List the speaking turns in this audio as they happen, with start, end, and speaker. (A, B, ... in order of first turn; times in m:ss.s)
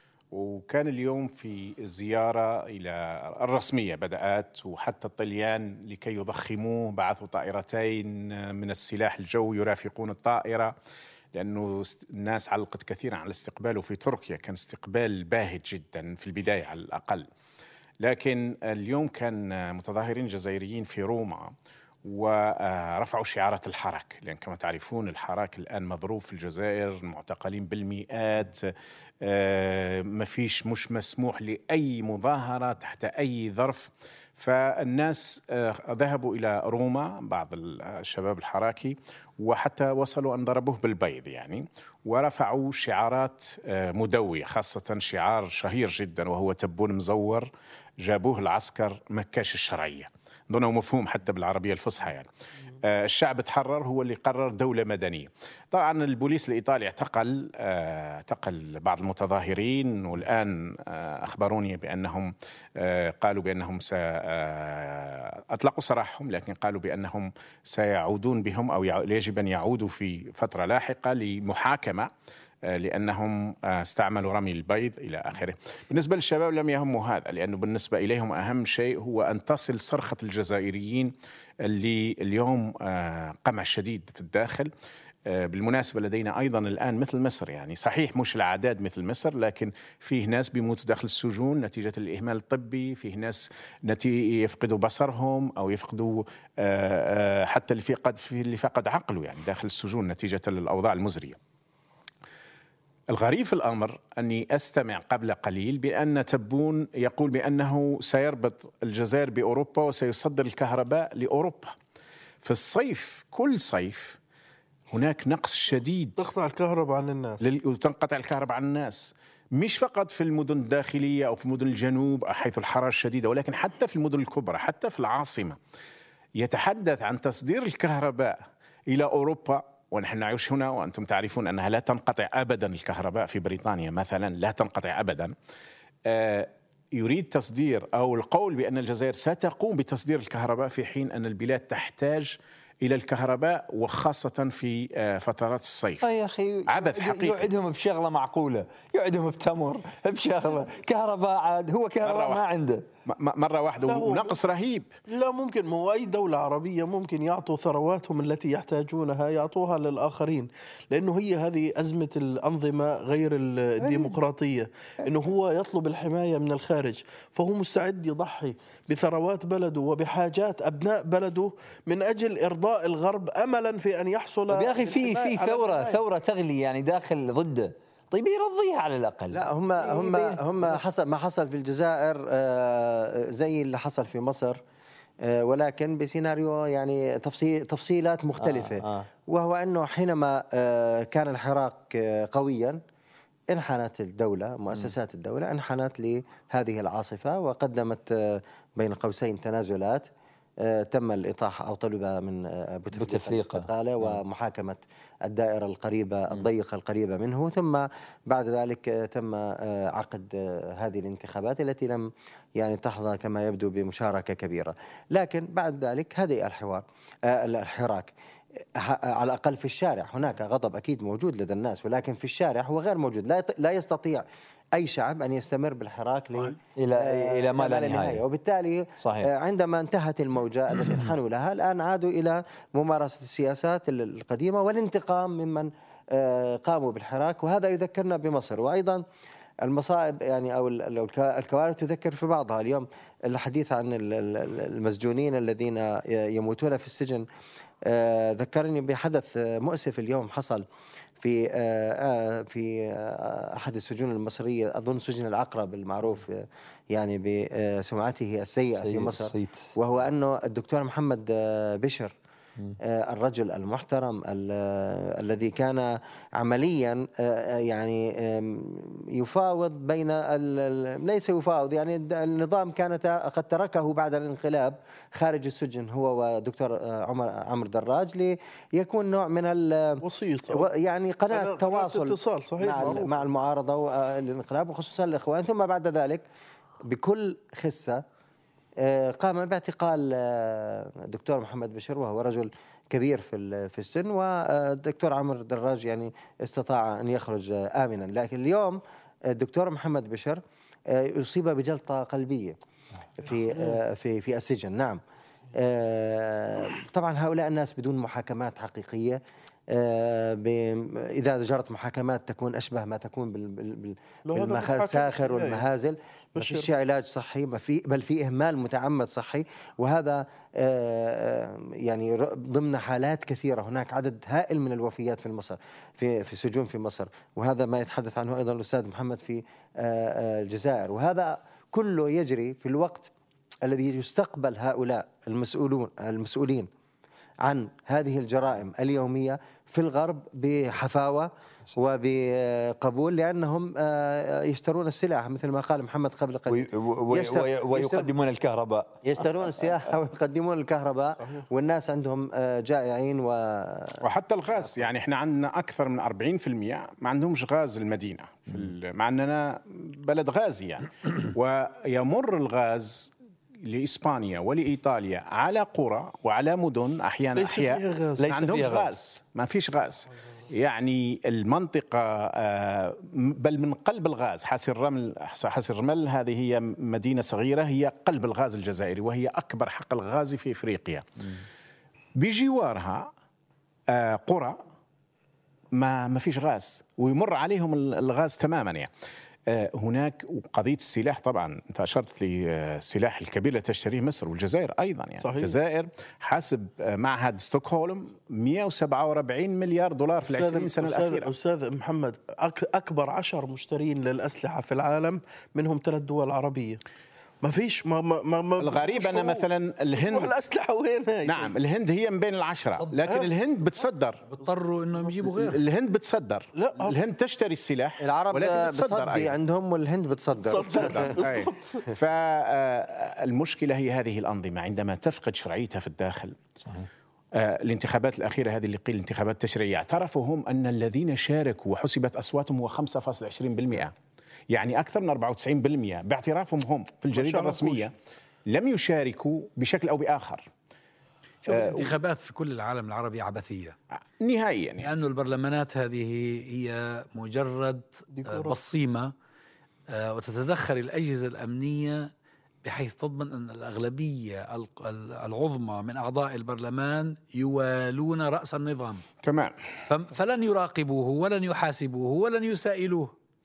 0:00.3-0:10.7 A
0:11.3-0:17.3 A
0:18.0-0:21.5 A
0:22.0-0:47.5 A
0:48.0-1:12.1 A
1:12.6-1:24.7 A
1:25.2-1:41.4 A
1:43.1-1:51.7 A
1:52.4-1:54.2 A
1:54.9-1:56.3 A
1:56.2-1:57.4 B
1:57.4-2:05.6 A
2:06.4-2:15.3 A
2:16.0-2:26.0 A
2:26.0-2:32.8 C
2:26.7-2:27.5 A
2:32.0-2:32.5 A
2:33.1-2:34.9 A
2:33.8-2:34.4 B
2:35.1-2:56.0 B
2:43.8-2:44.1 C
2:54.5-3:00.8 C
2:59.3-3:04.6 D
3:05.2-3:12.8 D
3:08.4-3:09.0 C
3:13.5-3:20.1 D
3:20.6-3:59.0 D
3:22.9-3:24.2 C
3:46.8-3:48.2 C
3:49.0-3:49.3 C
3:59.6-4:07.2 D
4:07.8-4:10.6 D
4:11.2-4:22.1 D
4:18.8-4:19.7 C
4:22.8-4:46.2 D
4:40.0-4:40.7 B
4:41.3-4:43.1 B
4:46.8-4:48.0 D
4:48.8-5:02.6 D
5:03.2-5:05.0 D
5:05.5-5:33.1 D
5:14.3-5:15.6 B
5:16.4-5:16.7 B
5:33.6-5:36.7 D
5:37.4-5:48.1 D
5:46.5-5:49.0 C
5:49.0-5:54.0 D
5:54.0-6:21.4 A
6:07.4-6:08.3 B
6:08.2-6:08.9 C
6:22.2-6:23.1 A
6:23.9-6:24.6 A
6:25.7-6:28.9 A
6:29.5-6:41.3 A
6:35.2-6:35.6 B
6:40.2-6:46.8 B
6:47.4-6:51.5 B
6:48.6-6:50.3 A
6:51.2-6:54.2 A
6:53.0-6:53.3 B
6:54.3-6:55.6 E
6:55.4-6:59.4 A
6:56.5-6:57.0 B
6:58.0-7:01.1 D
7:00.4-7:01.9 B
7:00.7-7:06.4 A
7:06.6-7:06.9 C
7:07.3-7:13.9 A
7:14.5-7:17.9 A
7:17.1-7:17.9 B
7:18.5-7:20.5 A
7:21.4-7:23.8 E
7:21.5-7:21.9 A
7:24.2-7:24.9 A
7:24.8-7:29.1 E
7:28.1-7:28.6 B
7:29.9-7:32.1 E
7:32.6-7:39.0 E
7:39.2-7:39.5 A
7:39.9-7:43.1 E